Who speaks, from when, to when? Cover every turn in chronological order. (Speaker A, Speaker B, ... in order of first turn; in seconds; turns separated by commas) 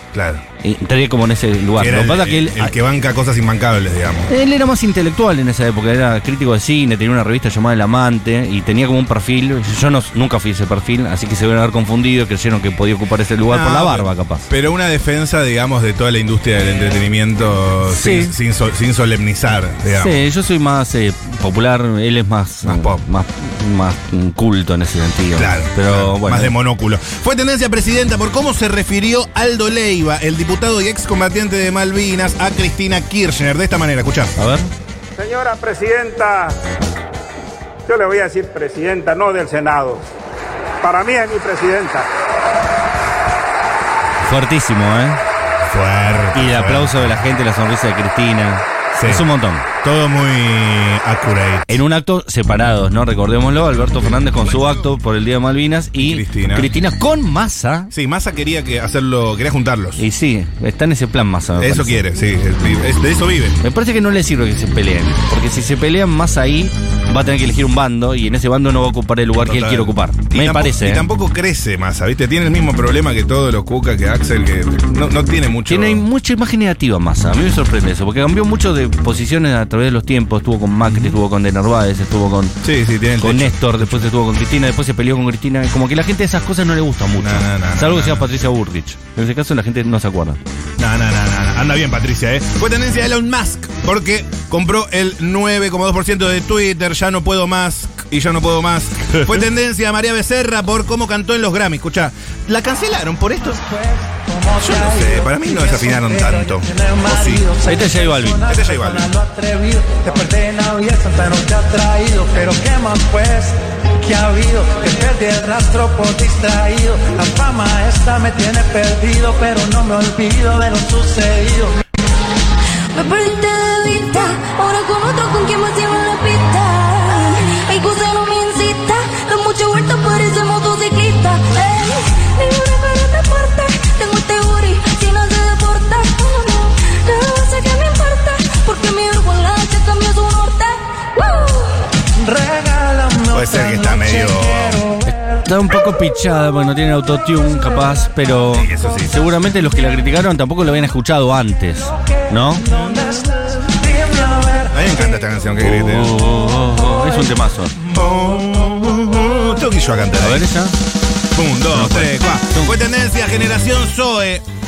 Speaker A: 0.1-0.4, Speaker B: 0.6-2.7, Speaker A: 1.8-4.3, Speaker B: 4.3-14.5, Speaker A: 13.5-20.2, Speaker B: 17.9-18.3, Speaker B: 19.9-26.5, Speaker A: 22.6-23.0, Speaker A: 25.3-34.3, Speaker B: 34.4-34.7, Speaker C: 35.2-36.6, Speaker C: 37.9-40.1, Speaker C: 40.8-42.1, Speaker B: 44.2-45.2, Speaker A: 45.7-47.0, Speaker B: 46.3-49.6, Speaker A: 48.9-49.3, Speaker A: 49.8-51.8, Speaker B: 51.7-57.9, Speaker A: 54.0-54.9, Speaker A: 56.0-56.7, Speaker A: 57.9-60.0, Speaker B: 60.0-62.0, Speaker A: 61.6-63.6, Speaker B: 63.6-71.1, Speaker A: 69.4-76.0, Speaker B: 75.7-82.5, Speaker A: 80.9-81.1, Speaker A: 82.6-84.1, Speaker B: 83.2-90.4, Speaker A: 87.2-88.3, Speaker A: 90.8-103.6, Speaker D: 104.3-104.6, Speaker A: 104.6-107.5, Speaker D: 107.0-108.0, Speaker B: 107.6-108.5, Speaker A: 108.4-109.1, Speaker D: 109.1-121.7, Speaker E: 122.9-141.9, Speaker D: 142.4-143.3, Speaker A: 143.3-144.9, Speaker B: 145.1-152.7, Speaker A: 148.5-149.2, Speaker A: 152.7-153.2, Speaker A: 154.6-156.2, Speaker B: 155.6-157.8, Speaker A: 157.8-160.4, Speaker B: 160.2-160.8, Speaker A: 161.3-164.4, Speaker B: 161.7-162.7